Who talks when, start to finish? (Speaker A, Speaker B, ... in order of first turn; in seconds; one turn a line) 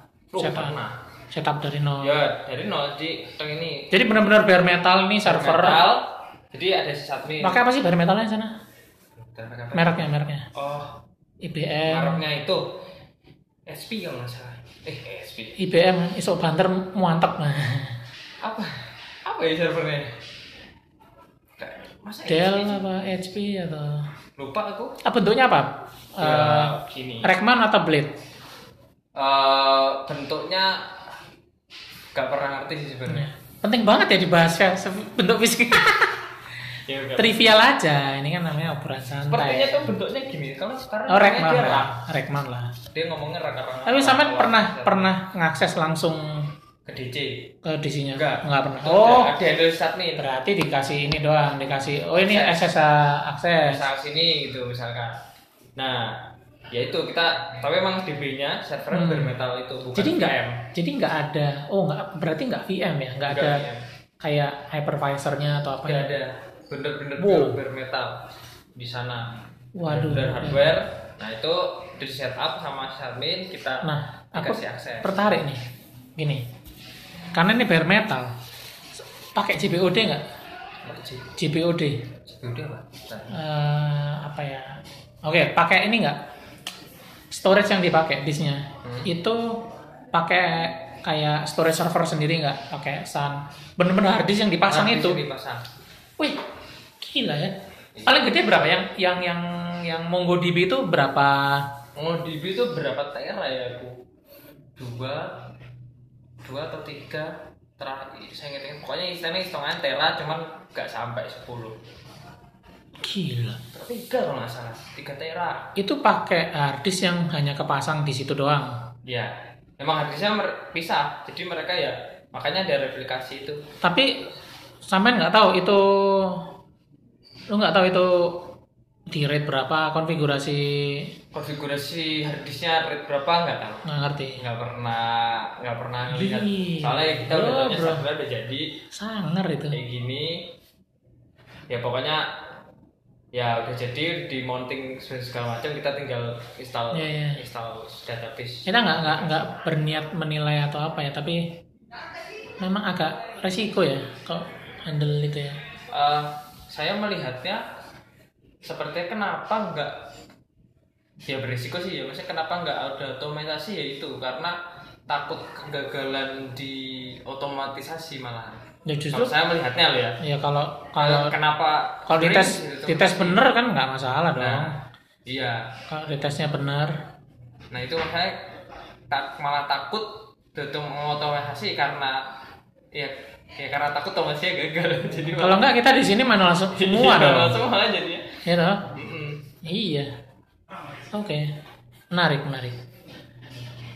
Speaker A: 0.3-1.0
Speaker B: 0.4-0.8
Speaker B: 1.3-2.2
Speaker A: 2.0-3.9
Speaker B: 3.9-5.8
Speaker A: 5.2-7.6
Speaker B: 7.4-8.5
Speaker A: 9.2-11.0
Speaker B: 9.7-10.5
Speaker B: 11.4-12.2
Speaker A: 11.8-12.8
Speaker A: 13.7-15.6
Speaker B: 15.6-18.0
Speaker A: 18.4-20.1
Speaker A: 21.6-22.9
Speaker B: 22.3-24.1
Speaker A: 24.4-25.0
Speaker B: 25.0-28.1
Speaker A: 26.2-27.3
Speaker A: 29.2-31.2
Speaker A: 32.1-33.3
Speaker B: 33.1-36.2
Speaker A: 36.9-37.6
Speaker B: 37.2-39.9
Speaker A: 39.3-41.9
Speaker B: 41.1-42.7
Speaker A: 42.9-45.2
Speaker B: 43.9-46.5
Speaker A: 46.9-47.5
Speaker B: 47.6-49.3
Speaker A: 48.1-50.2
Speaker B: 50.2-53.8
Speaker A: 52.1-52.7
Speaker A: 53.6-55.2
Speaker A: 55.8-60.7
Speaker B: 58.9-59.4
Speaker B: 60.0-63.6
Speaker A: 63.2-63.9
Speaker B: 64.2-66.1
Speaker A: 65.9-68.2
Speaker B: 67.2-67.6
Speaker A: 68.8-75.4
Speaker B: 69.8-70.7
Speaker B: 73.8-75.6
Speaker B: 76.2-76.5
Speaker B: 77.3-78.3
Speaker B: 79.3-80.2
Speaker A: 80.8-81.3
Speaker B: 81.4-82.1
Speaker A: 82.2-83.4
Speaker B: 83.3-86.2
Speaker B: 87.3-89.6
Speaker A: 88.8-89.1
Speaker B: 90.1-95.2
Speaker A: 94.6-95.7
Speaker B: 97.0-101.7
Speaker A: 98.0-98.3
Speaker A: 102.0-104.0
Speaker A: 104.8-105.5
Speaker A: 106.4-111.8
Speaker B: 113.0-113.6
Speaker A: 113.7-115.7
Speaker B: 115.8-118.7
Speaker A: 119.0-123.6
Speaker B: 123.8-124.2
Speaker B: 124.9-126.4
Speaker B: 127.5-128.5
Speaker B: 129.1-131.1
Speaker A: 131.3-133.9
Speaker B: 133.9-134.4
Speaker A: 134.4-138.7
Speaker B: 136.1-138.0
Speaker B: 138.9-139.8
Speaker A: 139.7-140.5
Speaker A: 141.7-142.3
Speaker A: 143.3-149.4
Speaker B: 146.9-147.4
Speaker B: 148.7-151.6
Speaker B: 152.6-155.6
Speaker A: 155.9-157.6
Speaker A: 158.6-160.1
Speaker A: 161.3-170.2
Speaker B: 168.9-169.3
Speaker B: 170.2-171.3
Speaker A: 171.0-173.5
Speaker B: 172.1-174.8
Speaker A: 174.3-174.7
Speaker A: 175.3-175.7
Speaker B: 175.9-176.9
Speaker A: 177.7-178.5
Speaker A: 179.1-182.2
Speaker A: 182.9-185.7
Speaker B: 185.2-187.6
Speaker A: 186.7-189.5
Speaker B: 188.4-188.9
Speaker B: 189.6-190.1
Speaker B: 191.1-191.5
Speaker B: 192.1-192.8